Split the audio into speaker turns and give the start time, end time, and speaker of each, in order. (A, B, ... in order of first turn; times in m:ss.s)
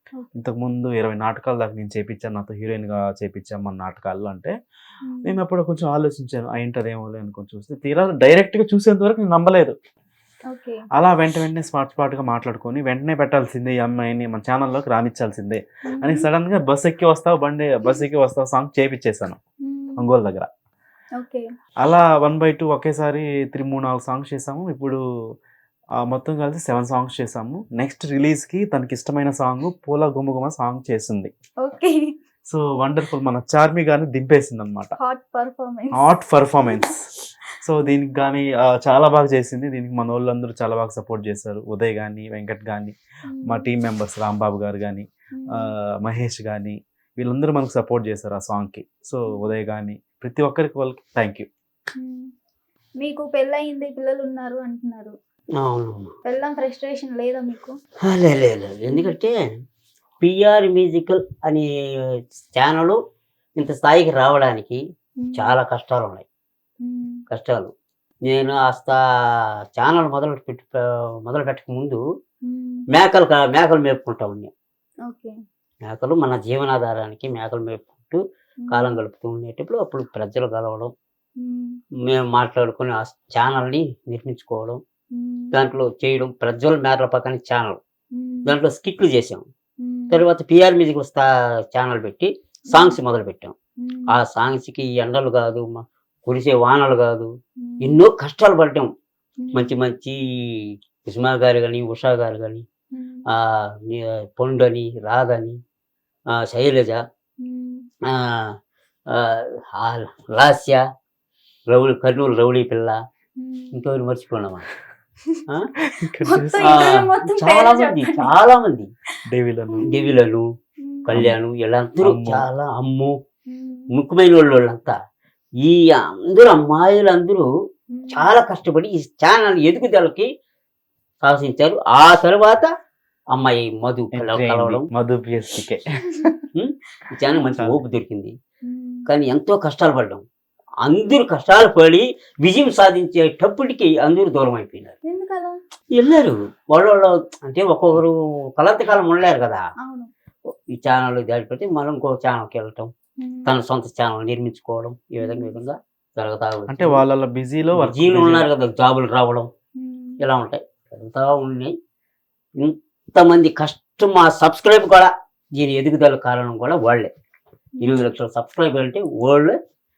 0:00.4-0:04.5 A
0:05.0-0:05.4 B
0:05.2-0:09.8 A
0:10.5-0:10.8 B
0:11.0-0:19.4 A
0:15.9-0:16.3 B
0:19.7-0:20.1 B
0:20.0-0:20.5 A
0:21.2-0:21.4 B
0:21.8-0:25.0 A
0:26.0-0:31.3 A
0:31.6-0:32.0 B
0:32.5-0:34.9 A
0:35.0-0:36.0 B
0:36.0-0:37.0 A
0:36.7-0:37.0 B
0:37.6-0:42.9 A
0:43.3-0:43.7 B
0:43.5-0:51.5 A
0:45.3-0:45.7 B
0:53.0-0:55.1 B
0:55.6-0:56.1 C
0:56.3-0:57.7 B
0:58.1-0:59.3 C
1:00.2-1:01.7 C
1:02.5-1:03.0 C
1:03.6-1:04.8 C
1:05.2-1:05.6 B
1:05.4-1:06.2 C
1:06.8-1:07.2 B
1:07.3-1:07.7 C
1:08.2-1:09.0 C
1:09.8-1:12.0 C
1:12.4-1:12.8 B
1:12.9-1:14.5 C
1:15.1-1:15.3 B
1:15.8-1:18.2 C
1:18.7-1:19.0 B
1:18.7-1:20.9 C
1:21.4-1:21.8 B
1:22.0-1:24.8 C
1:25.1-1:25.5 B
1:25.5-1:27.8 C
1:28.1-1:28.5 B
1:28.5-1:29.5 C
1:29.8-1:30.2 B
1:30.1-1:33.5 C
1:33.8-1:34.1 B
1:34.1-1:37.3 C
1:37.6-1:38.0 B
1:37.8-1:38.9 C
1:39.4-1:39.7 B
1:39.5-1:42.6 C
1:42.9-1:43.2 B
1:43.5-1:45.6 C
1:46.4-1:47.0 C
1:47.4-1:47.8 B
1:48.1-1:48.5 C
1:49.1-1:50.8 C
1:51.7-1:53.0 C
1:53.4-1:53.7 B
1:53.7-1:54.6 C
1:55.9-1:56.9 A
1:56.2-1:58.3 B
1:56.6-1:58.9 C
1:59.3-1:59.9 A
1:59.8-2:00.1 B
1:59.8-2:00.4 C
2:00.8-2:01.1 B
2:01.1-2:03.1 C
2:02.0-2:02.5 A
2:03.5-2:03.8 B
2:03.9-2:05.0 C
2:05.6-2:07.5 C
2:07.9-2:08.3 B
2:08.1-2:10.3 C
2:11.2-2:12.7 C
2:13.3-2:14.8 C
2:14.1-2:16.3 A
2:16.6-2:18.3 C
2:18.7-2:19.0 B
2:19.1-2:20.2 C
2:20.9-2:25.0 C
2:25.0-2:25.6 B
2:26.0-2:29.6 C
2:29.8-2:30.1 B
2:30.5-2:32.9 C
2:33.2-2:33.5 B
2:33.5-2:37.0 C
2:35.2-2:35.6 B
2:36.7-2:38.5 A
2:37.8-2:39.5 C
2:39.8-2:40.2 B
2:40.2-2:41.7 C
2:42.6-2:47.1 C
2:47.8-2:49.6 C